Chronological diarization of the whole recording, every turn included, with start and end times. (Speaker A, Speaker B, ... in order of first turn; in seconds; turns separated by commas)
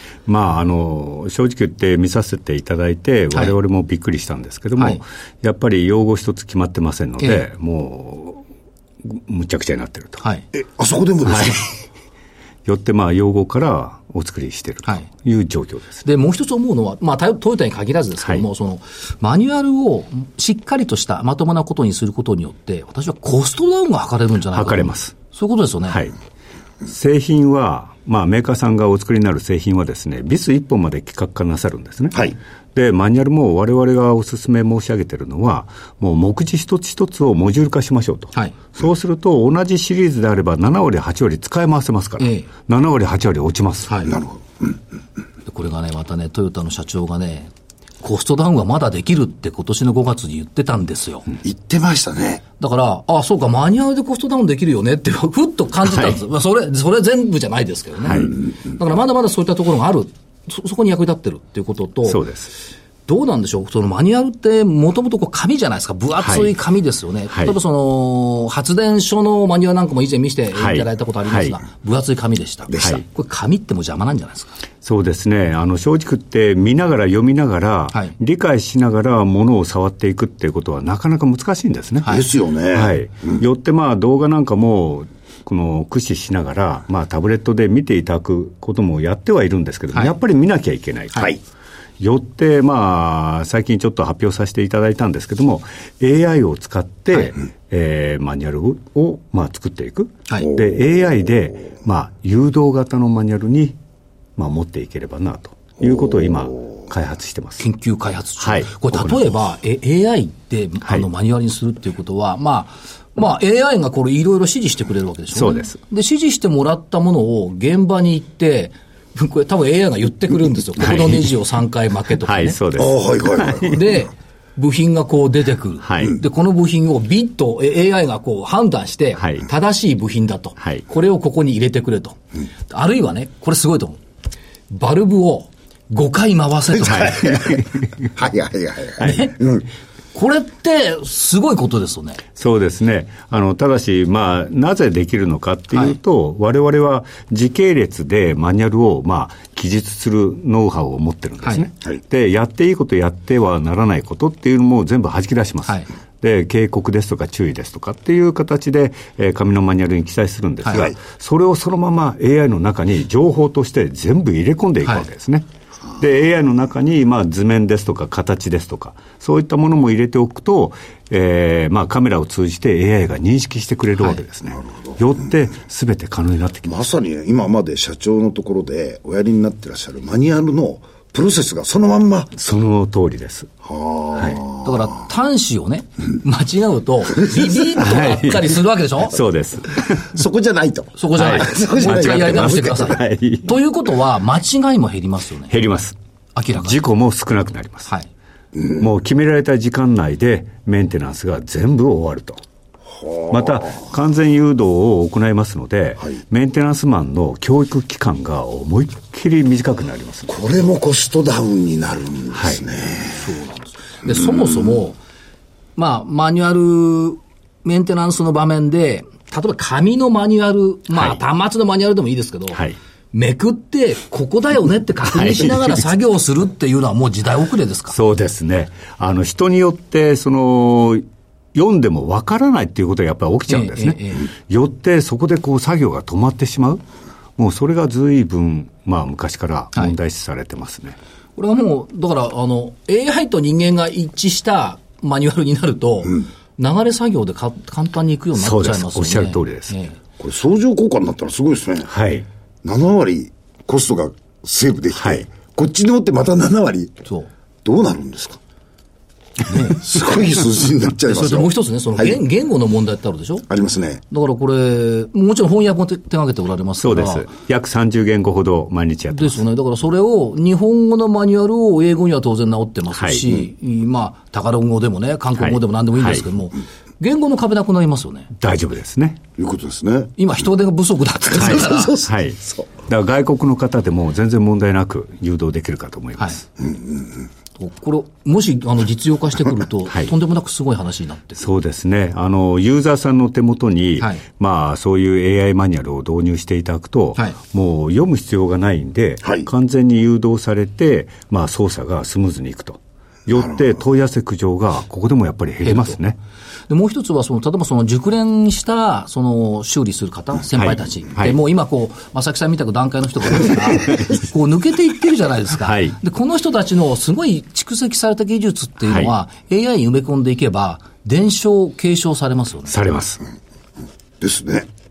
Speaker A: 0.3-8.4, Speaker A: 9.1-10.2, Speaker B: 10.5-11.7, Speaker A: 11.2-11.6, Speaker A: 12.7-16.1, Speaker C: 16.1-26.0, Speaker A: 24.5-25.1, Speaker A: 26.9-32.2, Speaker A: 32.8-44.0, Speaker C: 42.2-42.5, Speaker C: 43.9-44.1, Speaker B: 44.1-44.8, Speaker C: 45.5-47.5, Speaker C: 48.0-51.3, Speaker B: 51.4-52.4, Speaker C: 52.6-62.2, Speaker A: 55.9-56.2, Speaker A: 58.1-58.3, Speaker A: 62.1-62.5, Speaker C: 63.1-74.6, Speaker A: 66.2-66.5, Speaker A: 70.6-71.6, Speaker B: 72.7-73.0, Speaker A: 74.8-91.4, Speaker B: 82.1-83.4, Speaker A: 92.0-103.8, Speaker A: 104.4-107.7, Speaker C: 107.6-122.6, Speaker A: 108.4-109.3, Speaker A: 115.3-115.8, Speaker A: 120.8-121.3, Speaker A: 122.2-123.8, Speaker B: 122.8-123.9, Speaker C: 123.7-134.0, Speaker A: 125.8-126.2, Speaker A: 129.2-129.4, Speaker C: 134.7-137.5, Speaker A: 136.9-138.1, Speaker B: 136.9-137.6, Speaker B: 138.1-139.7, Speaker C: 139.0-139.4, Speaker C: 140.1-142.2, Speaker A: 142.4-165.5, Speaker C: 160.6-160.9, Speaker A: 166.0-176.8, Speaker B: 176.7-182.3, Speaker A: 182.4-183.5, Speaker B: 183.7-184.7, Speaker C: 184.6-189.2, Speaker A: 187.8-190.1, Speaker B: 190.1-193.0, Speaker C: 191.0-195.5, Speaker A: 191.2-193.5, Speaker A: 195.5-196.0, Speaker C: 196.4-196.8, Speaker A: 196.6-197.9, Speaker A: 198.8-202.4, Speaker B: 202.9-203.7, Speaker A: 203.3-210.4, Speaker B: 210.3-213.2, Speaker A: 212.3-212.6, Speaker C: 213.2-215.0, Speaker C: 215.8-222.6, Speaker A: 220.9-221.2, Speaker C: 223.1-228.0, Speaker A: 225.1-225.8, Speaker A: 227.9-236.8, Speaker C: 233.5-234.3, Speaker A: 237.4-241.0, Speaker C: 241.4-250.0, Speaker A: 248.4-249.7, Speaker B: 250.2-251.9, Speaker A: 251.9-252.3, Speaker B: 252.6-257.0, Speaker A: 255.0-255.2, Speaker B: 257.6-258.4, Speaker C: 259.5-259.8, Speaker B: 259.6-262.2, Speaker C: 261.1-263.5, Speaker B: 263.5-264.0, Speaker C: 264.1-267.3, Speaker A: 266.8-269.4, Speaker C: 269.1-278.3, Speaker A: 273.0-273.3, Speaker A: 275.4-276.2, Speaker A: 278.4-279.2, Speaker B: 279.4-280.1, Speaker C: 280.2-282.0, Speaker B: 281.4-282.7, Speaker A: 281.4-286.5, Speaker B: 286.6-287.2, Speaker C: 287.6-291.5, Speaker A: 291.4-306.2, Speaker C: 305.6-306.0, Speaker C: 306.7-322.8, Speaker A: 310.6-311.4, Speaker A: 315.6-316.0, Speaker A: 322.7-323.2, Speaker B: 324.2-324.7